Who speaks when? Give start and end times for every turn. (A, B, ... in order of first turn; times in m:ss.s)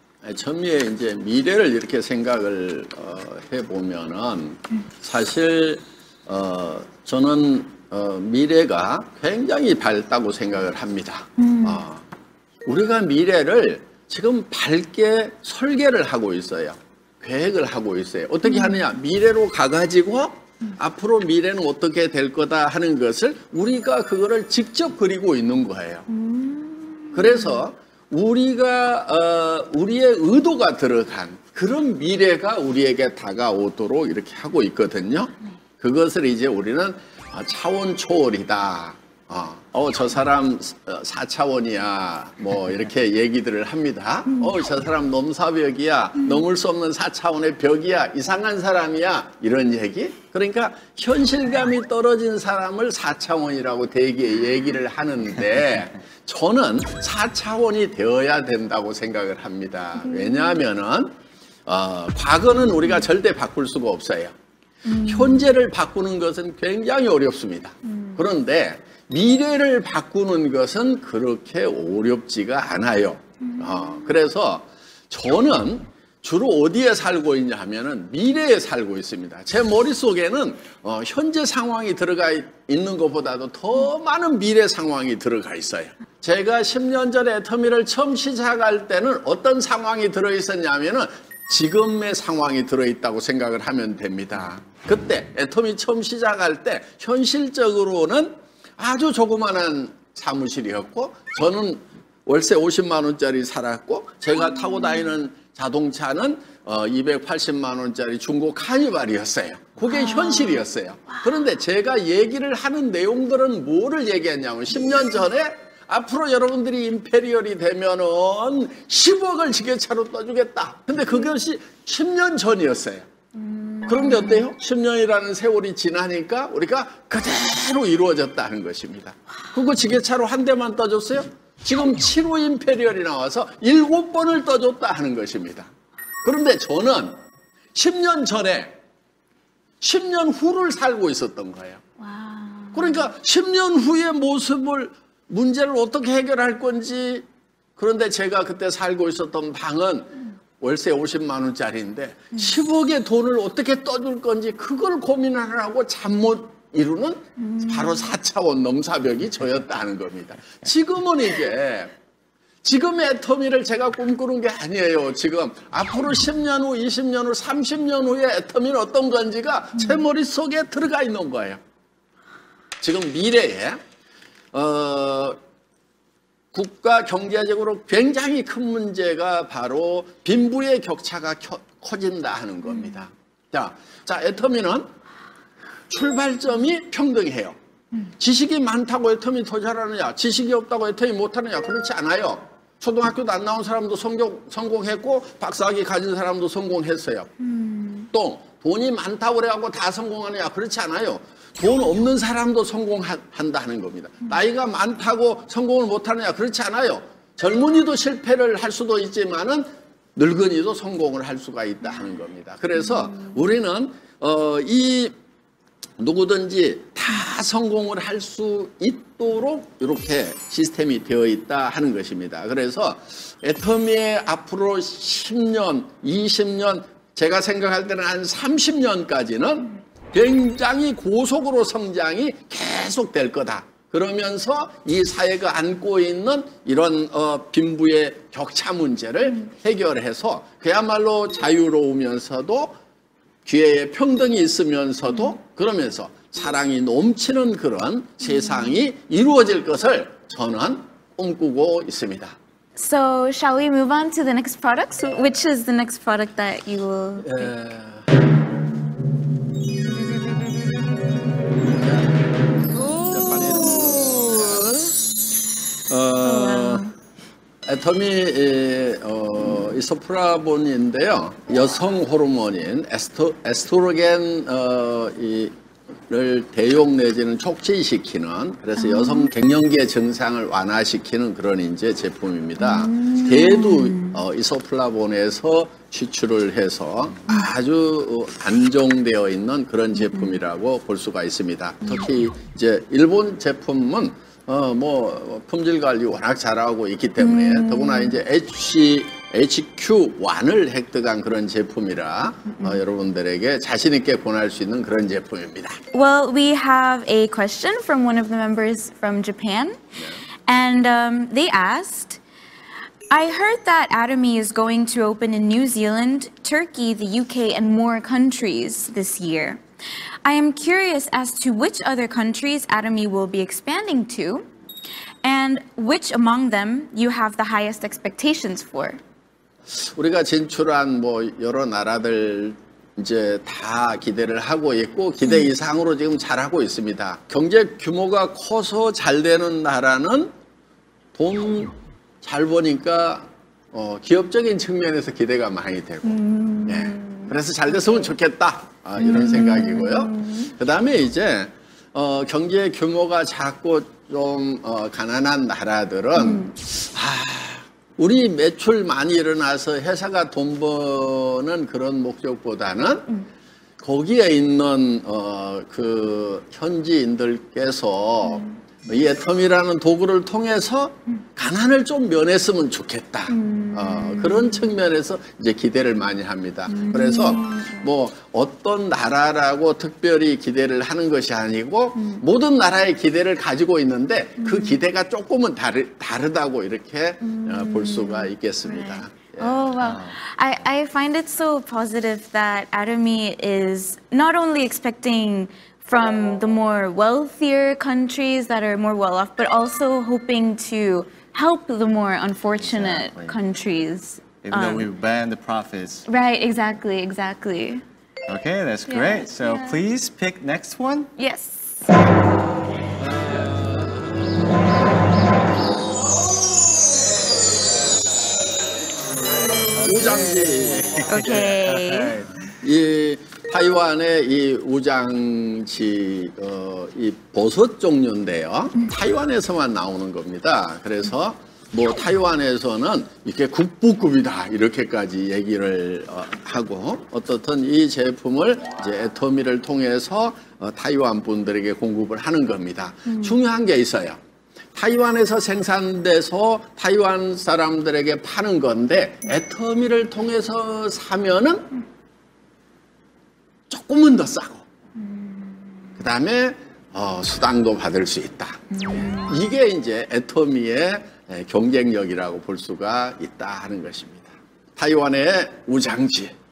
0:00.2-0:12.0 A
0:11.4-0:11.8 B
0:12.7-0:26.1 A
0:18.4-0:18.8 B
0:26.1-0:27.6 B
0:27.1-1:01.2 A
1:00.0-1:00.6 B
1:01.7-1:04.3 A
1:04.8-1:05.5 B
1:05.1-2:03.1 A
1:07.8-1:08.2 B
1:13.4-1:14.2 B
1:44.6-1:45.1 B
1:49.9-1:50.6 B
2:03.4-2:04.4 B
2:03.9-2:15.7 A
2:16.2-2:17.2 A
2:17.7-2:18.8 A
2:19.8-2:21.8 A
2:22.0-2:23.1 B
2:22.7-2:27.3 A
2:27.8-2:41.9 A
2:37.4-2:38.1 B
2:42.6-2:51.6 A
2:52.8-2:53.8 A
2:54.5-2:55.4 A
2:56.5-3:04.9 A
3:05.9-3:07.6 A
3:08.2-3:17.3 A
3:17.4-3:18.1 B
3:18.1-3:35.1 A
3:36.0-4:02.8 A
4:03.4-4:12.4 A
4:12.8-4:17.5 B
4:17.2-4:18.1 A
4:21.6-4:24.8 A
4:24.0-4:24.9 B
4:25.9-4:26.8 A
4:26.2-4:26.9 B
4:27.6-4:35.5 A
4:36.1-5:05.8 A
4:38.8-4:39.3 B
4:42.6-4:44.2 B
4:50.1-4:50.4 B
4:57.2-4:58.2 B
5:05.9-5:09.8 B
5:10.0-5:10.2 A
5:10.4-5:12.2 B
5:13.1-5:19.6 B
5:20.2-5:24.5 B
5:25.2-5:29.0 B
5:29.7-5:40.3 A
5:41.1-6:03.1 A
5:46.0-5:47.3 B
5:49.0-5:50.5 B
5:56.2-5:56.5 B
6:03.8-6:30.0 A
6:08.3-6:08.6 B
6:13.3-6:14.7 B
6:16.7-6:17.9 B
6:22.0-6:22.2 B
6:24.4-6:24.8 B
6:27.2-6:44.9 B
6:29.8-6:30.1 C
6:42.6-6:43.4 C
6:44.4-6:46.1 C
6:46.1-6:47.8 B
6:48.3-6:51.1 C
6:48.9-6:49.8 B
6:51.2-6:51.9 B
6:53.0-6:54.4 A
6:59.7-7:02.3 C
6:59.8-7:01.1 A
7:01.1-7:02.2 B
7:02.6-7:24.2 A
7:23.1-7:23.4 B
7:24.8-7:31.7 A
7:33.7-7:34.6 A
7:35.0-7:35.6 B
7:36.0-7:38.6 A
7:38.7-7:39.4 B
7:39.3-7:46.3 A